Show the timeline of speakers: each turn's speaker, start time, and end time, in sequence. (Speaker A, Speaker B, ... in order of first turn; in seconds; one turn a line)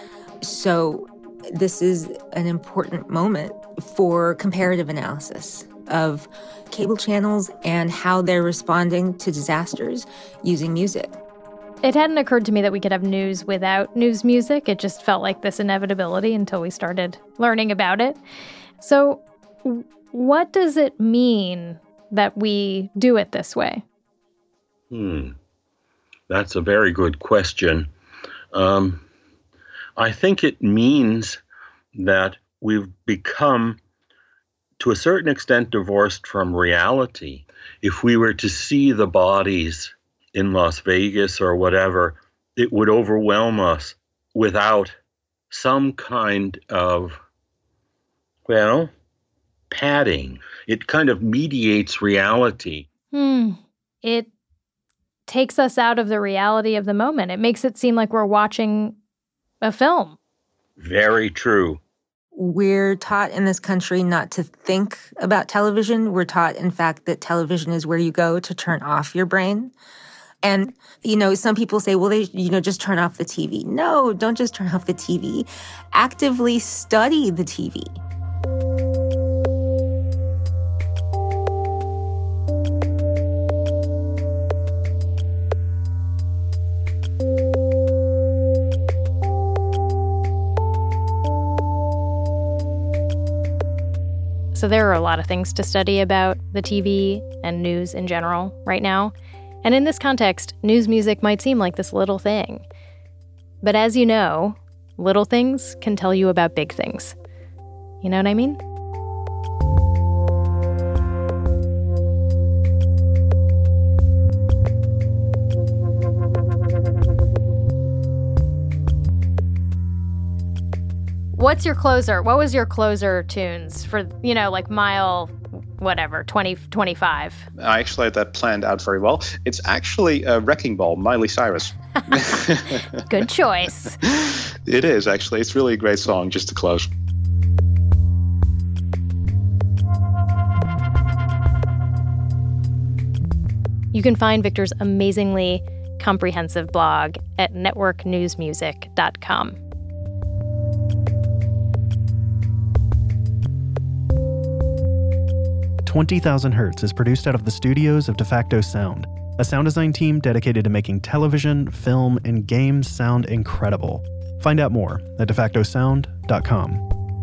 Speaker A: 0.4-11.2
Speaker B: 11.8-18.2
Speaker B: 18.8-23.8
Speaker C: 24.9-25.4
Speaker C: 26.3-27.9
Speaker C: 28.5-29.0
Speaker C: 30.0-31.4
Speaker C: 31.9-33.8
Speaker C: 34.8-44.9
Speaker C: 45.5-47.2
Speaker C: 48.5-48.9
Speaker C: 49.7-52.9
Speaker B: 53.1-54.3
Speaker B: 55.3-59.0
Speaker B: 59.6-60.2
Speaker C: 60.8-61.8
Speaker A: 62.3-69.7
Speaker A: 70.4-78.0
Speaker B: 94.5-99.1
Speaker B: 99.6-102.7
Speaker B: 103.6-107.2
Speaker B: 108.0-108.6
Speaker B: 121.3-127.5
Speaker D: 127.6-132.9
Speaker B: 133.1-134.0
Speaker D: 134.1-136.9
Speaker B: 143.9-149.6
Speaker E: 155.8-166.8